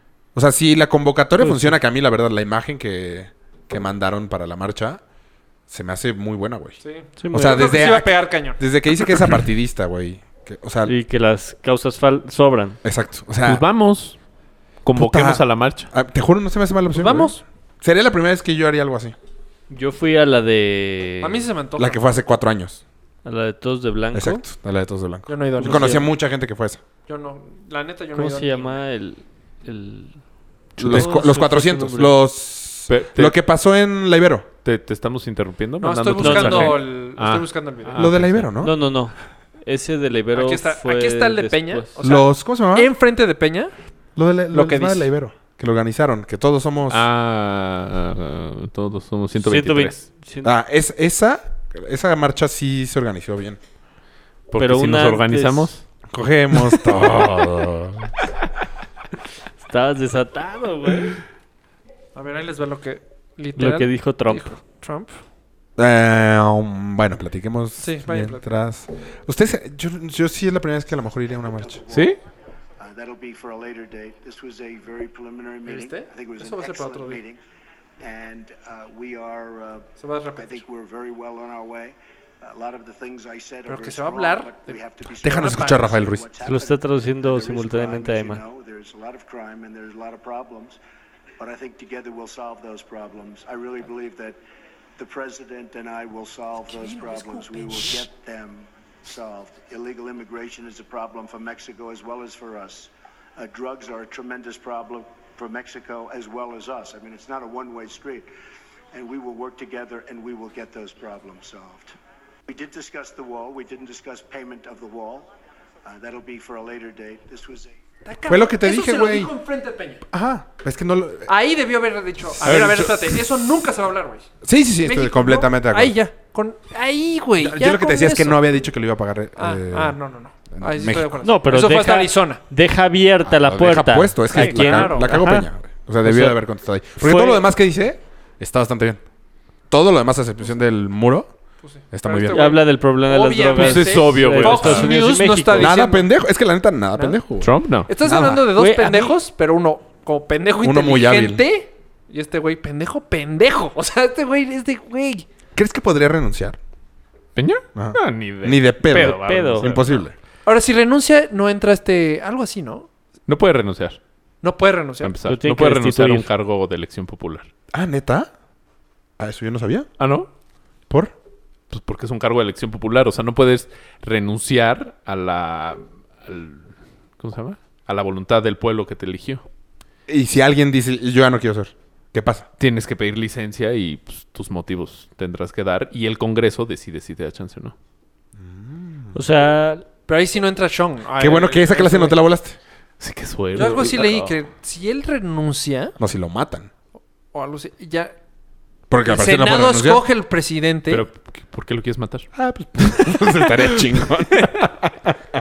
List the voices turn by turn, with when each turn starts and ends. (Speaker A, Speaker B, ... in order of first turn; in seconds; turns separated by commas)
Speaker A: 0.3-5.0, Speaker A: 5.7-6.8, Speaker B: 6.8-8.6, Speaker C: 7.2-7.8, Speaker A: 7.3-10.9, Speaker C: 10.9-12.8, Speaker A: 12.8-13.6, Speaker D: 13.4-14.2, Speaker D: 14.8-15.9, Speaker A: 14.9-19.1, Speaker B: 16.9-17.4, Speaker C: 19.7-21.5, Speaker B: 21.2-22.1, Speaker A: 21.8-22.8, Speaker C: 23.2-24.4, Speaker A: 24.1-26.8, Speaker B: 25.3-26.0, Speaker C: 25.6-26.1, Speaker B: 27.1-28.8, Speaker C: 28.1-30.2, Speaker C: 30.7-32.1, Speaker A: 30.8-34.5, Speaker D: 32.9-33.4, Speaker D: 34.6-38.5, Speaker B: 35.8-38.1, Speaker C: 36.2-36.8, Speaker A: 38.0-38.7, Speaker C: 38.6-42.0, Speaker B: 40.3-43.7, Speaker A: 42.0-42.9, Speaker A: 44.1-47.0, Speaker B: 44.5-45.1, Speaker D: 46.9-50.0, Speaker C: 49.4-50.5, Speaker A: 50.4-53.6, Speaker D: 54.5-55.8, Speaker C: 54.6-55.7, Speaker A: 56.1-58.1, Speaker C: 59.6-61.2, Speaker B: 62.1-65.2, Speaker C: 63.5-64.5, Speaker A: 65.8-71.8, Speaker B: 67.8-68.5, Speaker E: 71.6-72.2, Speaker D: 71.9-72.2, Speaker E: 72.8-77.4, Speaker B: 75.6-77.2, Speaker E: 78.0-90.8, Speaker B: 80.0-80.6, Speaker B: 83.7-85.9, Speaker A: 85.2-86.2, Speaker C: 86.4-88.4, Speaker E: 91.4-94.4, Speaker E: 95.0-108.3, Speaker B: 96.7-98.0, Speaker E: 108.9-111.9, Speaker E: 112.5-115.3, Speaker E: 115.8-117.8, Speaker B: 118.0-120.0, Speaker A: 118.3-119.3, Speaker A: 120.1-121.3, Speaker B: 121.2-124.3, Speaker D: 122.4-123.5, Speaker A: 124.4-126.0, Speaker B: 124.8-128.4, Speaker A: 127.4-130.0, Speaker B: 129.4-132.4, Speaker A: 130.5-131.1, Speaker C: 131.2-135.5, Speaker A: 133.2-139.0, Speaker B: 134.3-135.1, Speaker C: 136.0-136.4, Speaker B: 137.0-137.4, Speaker A: 139.7-141.3, Speaker B: 141.6-146.1, Speaker A: 141.9-142.4, Speaker C: 142.3-145.7, Speaker D: 143.6-144.9, Speaker A: 145.6-147.5, Speaker D: 147.4-147.9, Speaker B: 147.9-155.3, Speaker A: 148.0-148.4, Speaker C: 148.5-149.2, Speaker A: 150.6-151.4, Speaker A: 155.6-156.6, Speaker D: 157.4-160.1, Speaker A: 157.8-160.1, Speaker C: 159.1-159.7, Speaker B: 160.4-162.9, Speaker D: 163.3-164.0, Speaker B: 164.4-165.1, Speaker D: 165.0-167.5, Speaker C: 165.2-166.2, Speaker A: 167.7-168.3, Speaker A: 169.2-169.9, Speaker D: 170.0-170.3, Speaker D: 171.7-179.4, Speaker A: 180.1-182.4, Speaker D: 182.6-187.7, Speaker A: 188.4-189.1, Speaker C: 189.1-189.8, Speaker B: 190.1-192.2, Speaker A: 191.2-192.6, Speaker D: 193.0-194.3, Speaker B: 193.6-195.9, Speaker A: 196.0-196.7, Speaker B: 197.3-198.1, Speaker A: 198.9-200.1, Speaker B: 199.1-201.0, Speaker D: 200.9-202.3, Speaker A: 202.3-205.2, Speaker D: 202.8-204.7